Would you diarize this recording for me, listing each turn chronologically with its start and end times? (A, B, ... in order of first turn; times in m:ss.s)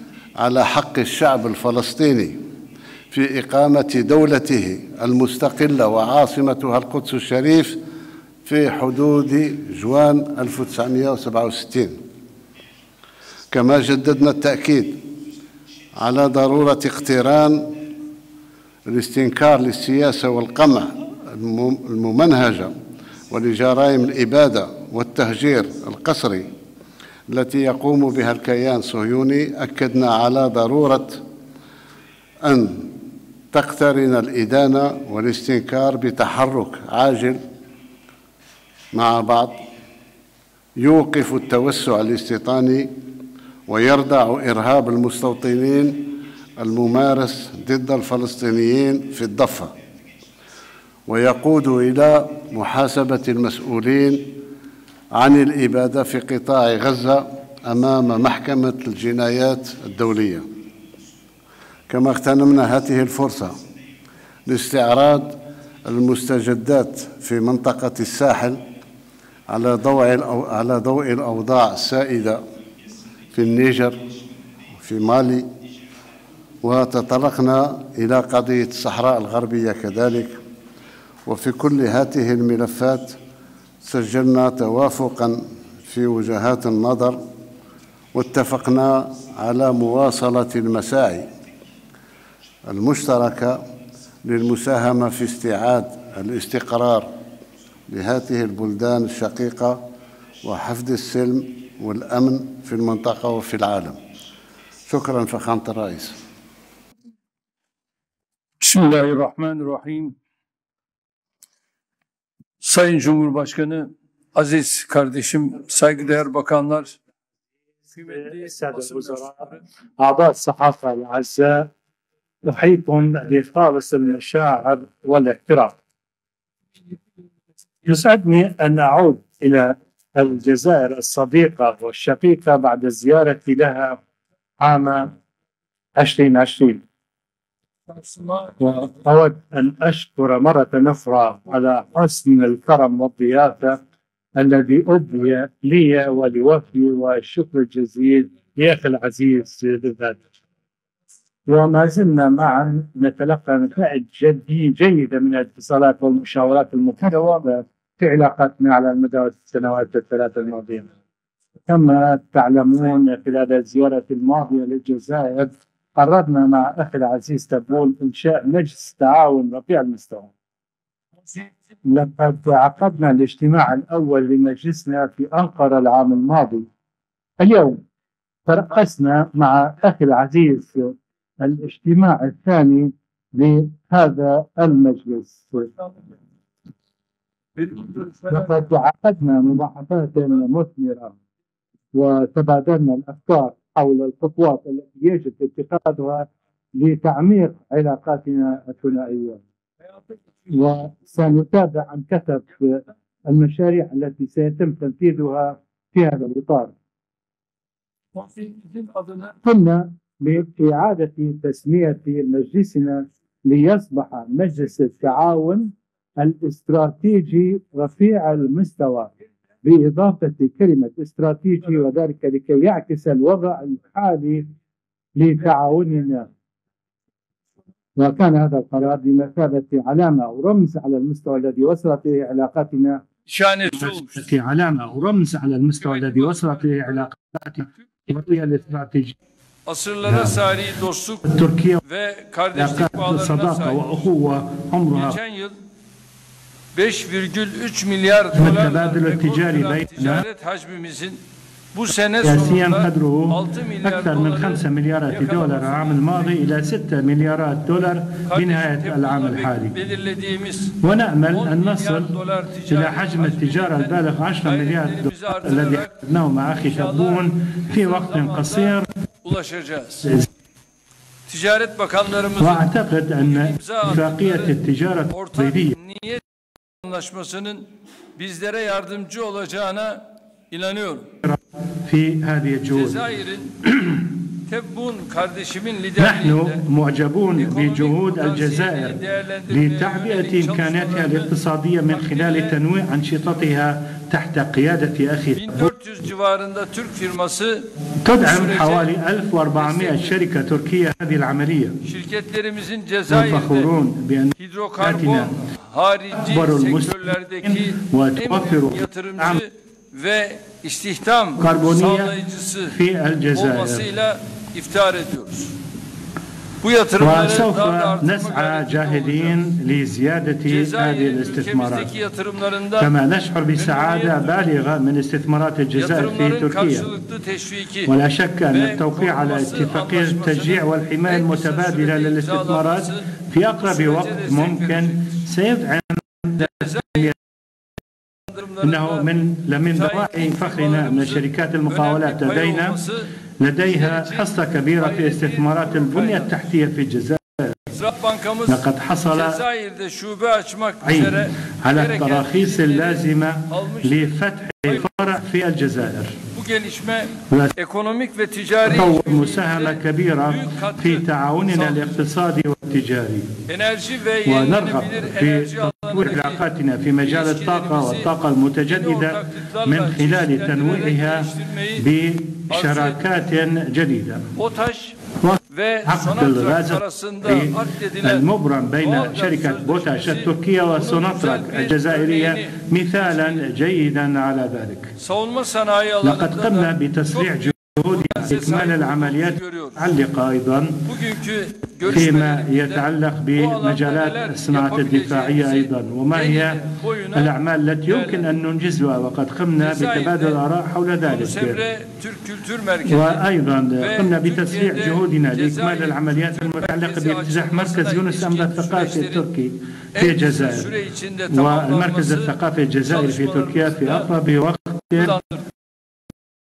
0:00.4-0:02.4 A
0:03.1-0:07.8 A
0:08.5-0:12.0 A
0:13.5-0:15.0 A
0:16.0-0:17.7 A
0:18.9-0:22.7 A
0:23.3-0:26.5 A
0:27.3-0:31.2 A
0:32.4-0:32.9 A
0:33.5-0:37.4 A
0:38.9-0:39.6 A
0:40.8-0:42.9 A
0:43.7-0:49.7 A
0:51.1-0:54.4 A
0:55.1-1:00.4 A
1:01.9-1:03.5 A
1:04.5-1:08.6 A
1:09.5-1:12.4 A
1:13.3-1:14.0 A
1:14.8-1:15.5 A
1:16.6-1:20.3 A
1:21.3-1:23.2 A
1:23.8-1:27.2 A
1:28.1-1:31.2 A
1:32.7-1:33.6 A
1:34.2-1:37.1 A
1:37.9-1:39.8 A
1:40.4-1:44.0 A
1:44.9-1:46.2 A
1:48.6-1:50.2 B
1:52.6-1:57.0 B
1:58.0-1:59.6 B
1:58.1-1:59.5 C
2:00.0-2:01.7 C
2:02.4-2:05.8 C
2:07.8-2:14.0 C
2:14.6-2:15.1 C
2:16.0-2:16.8 C
2:18.0-2:18.5 B
2:18.6-2:23.8 C
2:24.4-2:30.2 C
2:31.5-2:40.9 C
2:41.7-2:50.3 C
2:51.4-2:56.7 C
2:57.4-2:57.8 C
2:58.5-3:05.8 C
3:07.7-3:11.2 C
3:11.9-3:19.4 C
3:20.5-3:26.7 C
3:29.2-3:39.1 C
3:39.6-3:44.5 C
3:45.2-3:46.3 C
3:48.0-3:53.0 C
3:53.3-3:54.1 B
3:53.7-3:59.2 C
3:55.8-3:56.6 B
3:59.7-4:01.3 B
4:00.0-4:00.4 C
4:01.2-4:01.8 C
4:01.8-4:03.9 B
4:02.6-4:05.2 C
4:04.9-4:05.6 B
4:06.7-4:11.2 B
4:08.4-4:10.2 C
4:11.7-4:16.5 B
4:12.2-4:19.8 C
4:18.3-4:26.0 B
4:20.8-4:22.1 C
4:22.7-4:28.9 C
4:26.6-4:30.1 B
4:31.3-4:32.7 B
4:32.4-4:35.8 C
4:33.2-4:34.6 B
4:35.1-4:36.2 B
4:36.8-4:41.1 B
4:41.2-4:43.0 C
4:42.7-4:43.6 B
4:43.7-4:44.0 C
4:44.5-4:46.6 B
4:46.0-4:55.7 C
4:47.4-4:51.3 B
4:51.9-4:52.6 B
4:55.4-4:57.7 B
4:58.0-5:01.8 C
4:58.2-4:58.9 B
4:59.6-5:00.1 B
5:01.8-5:03.7 B
5:03.1-5:05.3 C
5:04.4-5:12.8 B
5:06.2-5:09.4 C
5:11.4-5:13.9 C
5:13.3-5:15.5 B
5:16.6-5:19.4 B
5:17.0-5:21.9 C
5:20.5-5:22.9 B
5:22.8-5:26.9 C
5:23.6-5:24.4 B
5:25.8-5:27.9 B
5:27.9-5:37.1 C
5:28.5-5:33.0 B
5:33.6-5:35.2 B
5:36.4-5:37.1 B
5:38.3-5:39.1 B
5:38.6-5:42.8 C
5:39.7-5:43.1 B
5:43.4-5:47.6 C
5:43.7-5:46.3 B
5:47.7-5:54.1 B
5:48.5-5:49.4 C
5:50.8-5:56.2 C
5:56.4-6:02.0 B
5:58.6-6:03.3 C
6:03.5-6:06.4 B
6:04.2-6:14.2 C
6:07.0-6:08.1 B
6:08.7-6:11.9 B
6:12.5-6:13.0 B
6:14.4-6:15.0 B
6:15.2-6:24.9 C
6:15.5-6:18.3 B
6:18.8-6:23.4 B
6:25.0-6:29.8 B
6:26.0-6:30.8 C
6:30.9-6:37.4 B
6:31.9-6:36.6 C
6:37.1-6:41.6 C
6:37.9-6:38.3 B
6:39.6-6:40.4 B
6:41.0-6:43.2 B
6:42.9-6:50.7 C
6:43.8-6:49.3 B
6:50.0-6:54.1 B
6:51.3-6:55.2 C
6:55.0-6:55.4 B